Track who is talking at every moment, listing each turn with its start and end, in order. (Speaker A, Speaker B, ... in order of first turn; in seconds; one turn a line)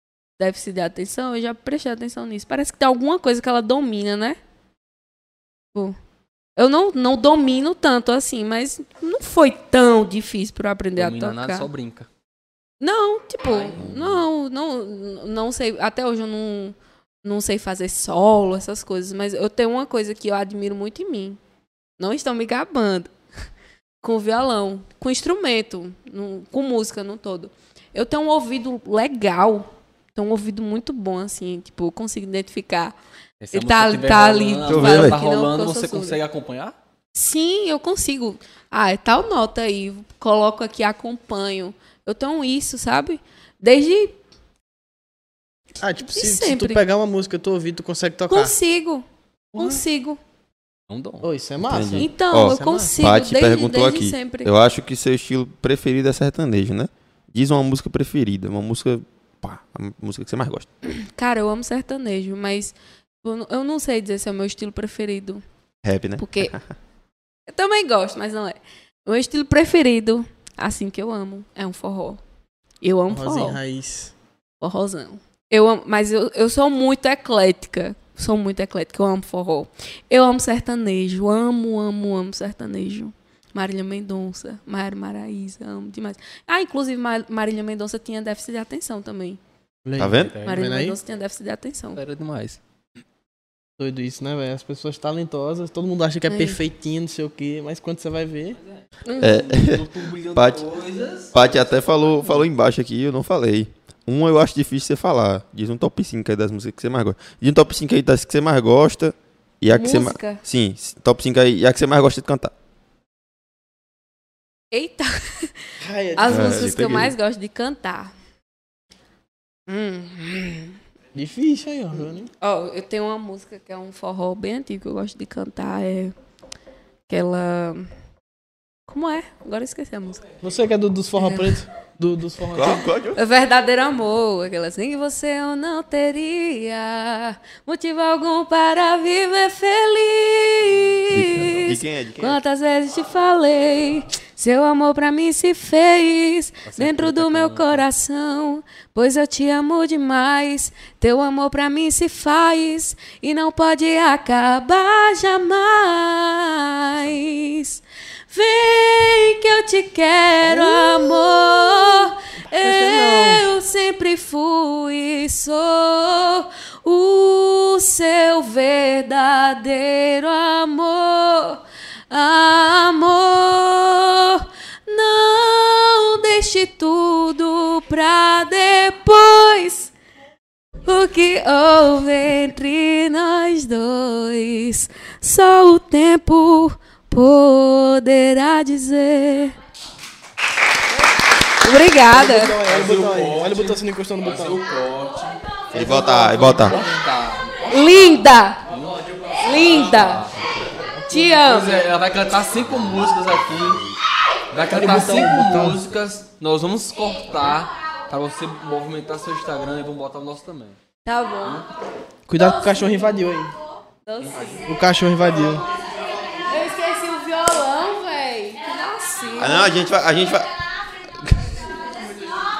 Speaker A: 0.4-4.4
Speaker A: 6.5-11.7
Speaker B: 10.9-12.1
Speaker A: 12.8-21.4
Speaker A: 22.0-23.1
Speaker A: 24.0-32.9
Speaker B: 33.4-36.7
Speaker A: 33.5-36.2
Speaker C: 34.7-35.2
Speaker A: 37.1-44.1
Speaker D: 45.8-48.5
Speaker A: 46.1-46.8
Speaker A: 48.3-50.2
Speaker D: 49.5-49.8
Speaker B: 50.9-51.2
Speaker D: 51.2-53.1
Speaker C: 51.6-60.7
Speaker A: 51.9-54.5
Speaker A: 60.8-65.4
Speaker C: 65.8-66.7
Speaker A: 66.2-66.5
Speaker A: 67.5-72.2
Speaker A: 72.8-73.6
Speaker D: 73.1-74.1
Speaker A: 74.6-89.4
Speaker D: 89.8-91.0
Speaker C: 90.0-90.3
Speaker B: 90.0-90.6
Speaker A: 90.4-92.0
Speaker B: 92.0-92.6
Speaker D: 93.8-98.6
Speaker A: 96.3-96.6
Speaker A: 99.0-99.4
Speaker C: 99.2-100.6
Speaker B: 99.2-101.4
Speaker C: 101.3-112.5
Speaker A: 109.7-110.4
Speaker A: 114.7-115.5
Speaker D: 115.8-116.7
Speaker A: 116.1-118.1
Speaker C: 116.3-117.1
Speaker A: 119.7-120.8
Speaker D: 121.1-122.3
Speaker A: 122.4-126.1
Speaker A: 127.1-127.9
Speaker A: 128.9-130.2
Speaker D: 130.4-132.8
Speaker A: 131.2-131.6
Speaker C: 132.5-133.2
Speaker A: 133.1-179.9
Speaker C: 141.1-142.4
Speaker B: 146.7-147.8
Speaker D: 160.4-163.4
Speaker A: 180.8-189.5
Speaker A: 191.6-192.6
Speaker D: 192.1-194.6
Speaker B: 192.7-197.7
Speaker C: 195.7-196.8
Speaker D: 195.7-197.0
Speaker A: 197.7-198.6
Speaker B: 198.7-199.1
Speaker A: 199.4-200.3
Speaker B: 199.7-200.4
Speaker C: 200.3-200.8
Speaker D: 201.0-201.3
Speaker A: 201.1-201.8
Speaker B: 201.3-203.8
Speaker C: 202.9-203.9
Speaker B: 204.5-210.8
Speaker D: 204.7-205.8
Speaker A: 211.0-211.6
Speaker D: 212.3-213.5
Speaker A: 212.4-213.1
Speaker A: 214.0-214.7
Speaker D: 214.7-215.6
Speaker A: 216.3-219.7
Speaker C: 219.4-220.5
Speaker C: 221.2-221.6